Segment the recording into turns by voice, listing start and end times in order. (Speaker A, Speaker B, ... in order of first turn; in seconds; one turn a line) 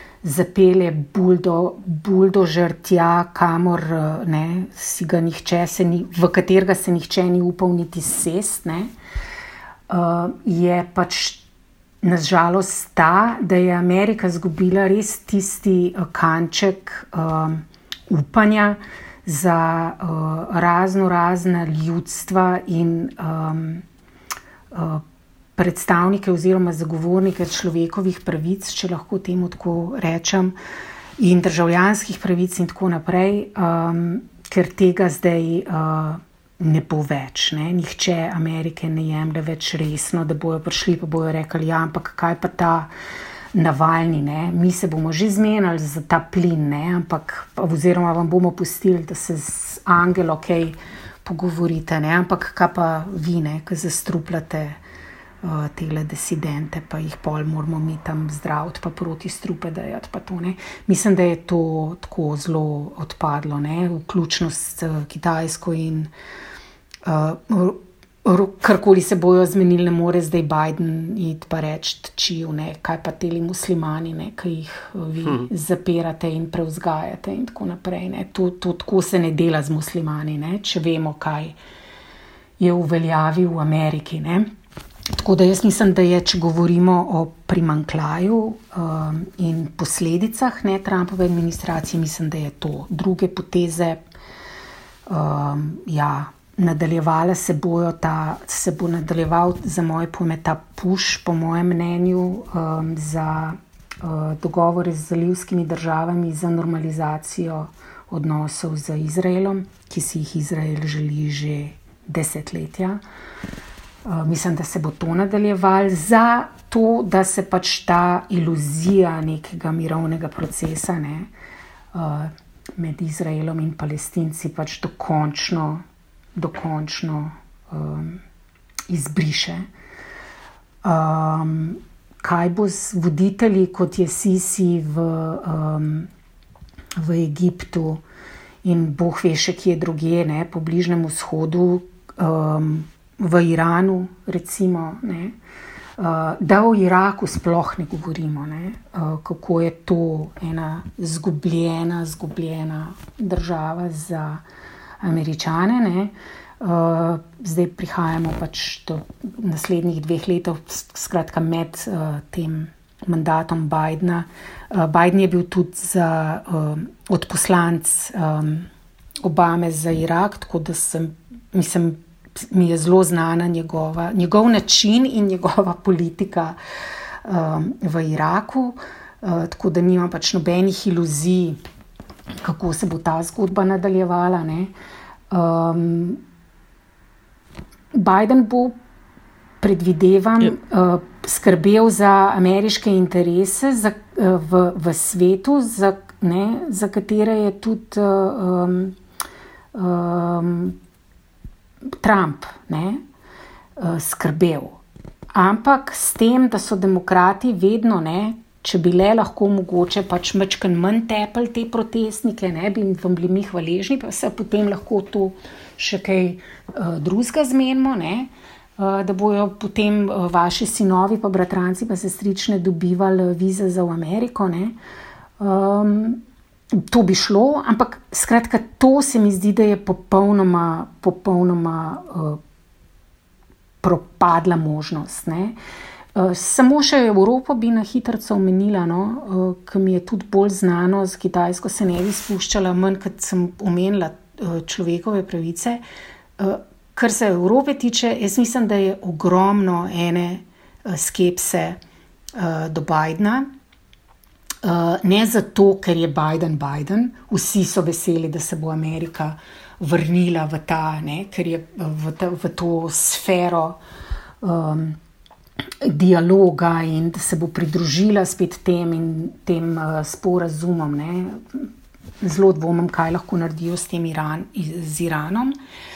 Speaker A: 0.2-8.9
Speaker A: 9.9-11.4
Speaker A: 12.0-23.9
Speaker A: 24.7-25.0
Speaker A: 25.6-30.6
Speaker A: 31.2-42.9
Speaker A: 43.5-54.8
Speaker A: 55.4-66.1
Speaker A: 67.0-81.5
Speaker A: 82.6-84.5
Speaker A: 85.2-94.0
Speaker A: 95.1-113.0
Speaker A: 114.0-121.3
Speaker A: 121.9-125.8
Speaker A: 126.4-128.2
Speaker A: 128.9-129.7
Speaker A: 130.8-136.1
Speaker A: 137.0-138.0
Speaker A: 138.6-145.4
Speaker A: 146.0-154.4
Speaker A: 155.0-168.7
Speaker A: 169.2-176.6
Speaker A: 177.2-181.6
Speaker A: 182.4-184.7
Speaker A: 185.3-186.2
Speaker A: 187.9-188.8
Speaker A: 189.6-199.0
Speaker A: 199.7-200.8
Speaker A: 202.0-203.0
Speaker A: 203.8-204.8
Speaker A: 205.3-224.8
Speaker A: 225.4-226.2
Speaker A: 226.7-232.4
Speaker A: 233.8-235.6
Speaker A: 236.2-245.8
Speaker A: 246.4-251.8
Speaker A: 252.3-253.5
Speaker A: 254.6-263.8
Speaker A: 264.4-265.0
Speaker A: 265.8-271.7
Speaker A: 272.2-275.6